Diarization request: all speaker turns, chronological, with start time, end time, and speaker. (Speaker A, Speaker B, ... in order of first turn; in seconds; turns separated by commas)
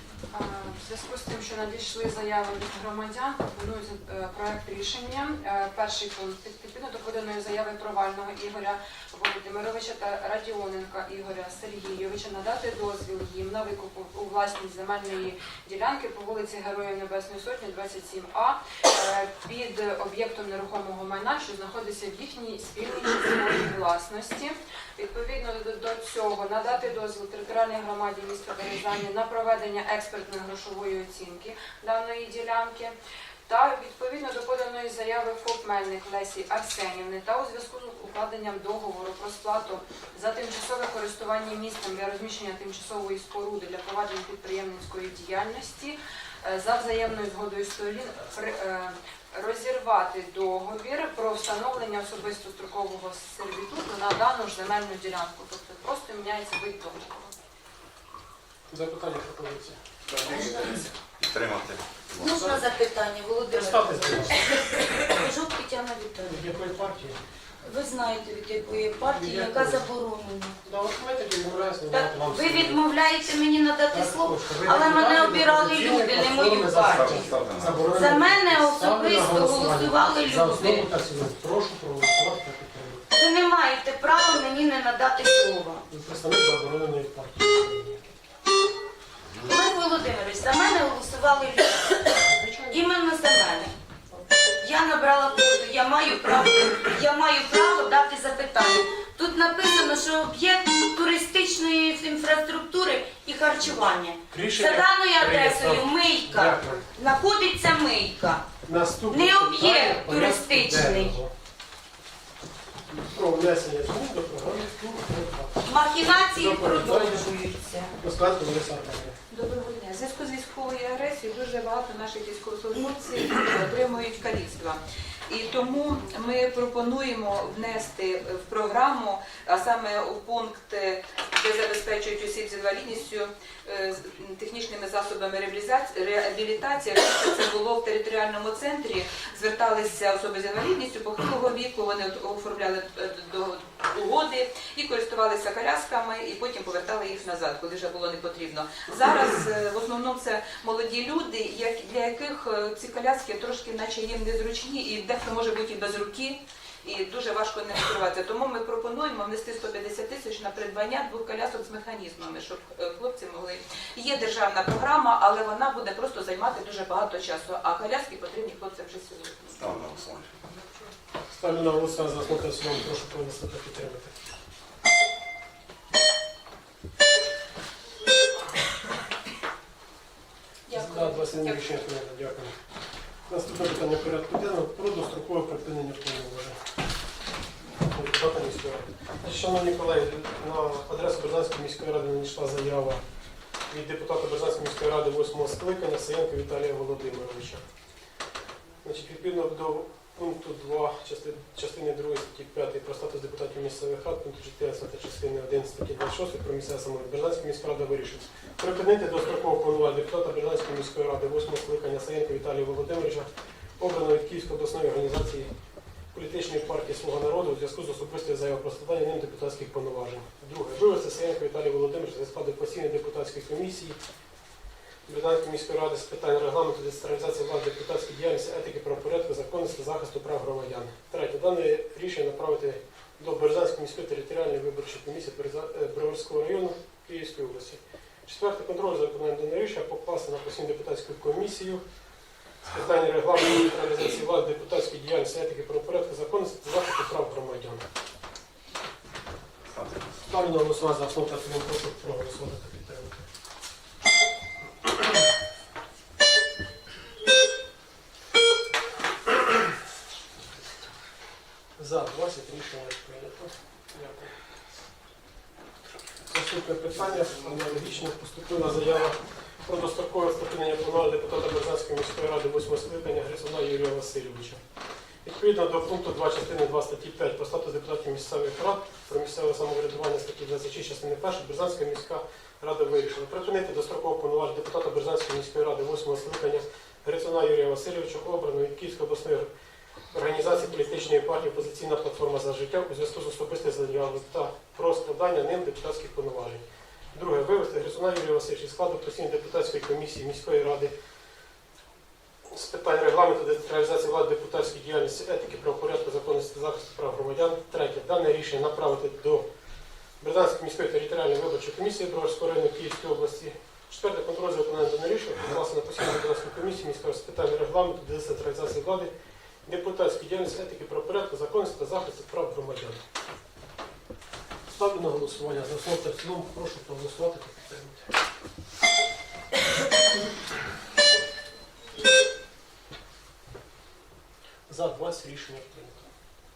Speaker A: 0.3-32.9, Speaker A: 33.5-57.3, Speaker B: 58.7-60.9, Speaker C: 60.2-60.7, Speaker D: 61.2-62.4, Speaker C: 62.2-66.4, Speaker B: 62.2-62.7, Speaker B: 63.5-64.4, Speaker B: 66.2-67.2, Speaker C: 67.6-70.6, Speaker B: 69.0-69.9, Speaker B: 70.6-73.3, Speaker C: 71.9-77.3, Speaker B: 73.9-83.0, Speaker D: 76.8-77.8, Speaker C: 77.9-80.9, Speaker C: 83.1-85.8, Speaker B: 85.9-88.0, Speaker C: 89.4-92.0, Speaker B: 92.2-92.8, Speaker C: 92.7-93.7, Speaker C: 94.6-108.4, Speaker B: 104.3-106.8, Speaker B: 108.6-111.3, Speaker C: 109.1-111.2, Speaker B: 112.9-115.6, Speaker C: 115.6-117.9, Speaker B: 116.3-117.3, Speaker B: 118.0-119.2, Speaker E: 119.3-169.6, Speaker D: 169.5-170.3, Speaker B: 171.3-174.1, Speaker E: 180.7-181.8, Speaker B: 180.7-182.6, Speaker B: 183.3-186.6, Speaker B: 187.8-193.0, Speaker B: 193.7-197.6, Speaker B: 198.8-213.3, Speaker B: 213.8-215.5, Speaker B: 216.1-224.0, Speaker B: 225.1-241.8, Speaker B: 242.7-247.8, Speaker D: 249.7-250.2, Speaker B: 250.2-253.2, Speaker B: 261.8-264.3, Speaker B: 266.3-274.6, Speaker B: 275.2-289.5, Speaker B: 290.1-300.9, Speaker B: 302.5-309.4, Speaker B: 310.2-319.1, Speaker B: 319.6-323.0, Speaker B: 324.7-328.1, Speaker B: 334.7-336.1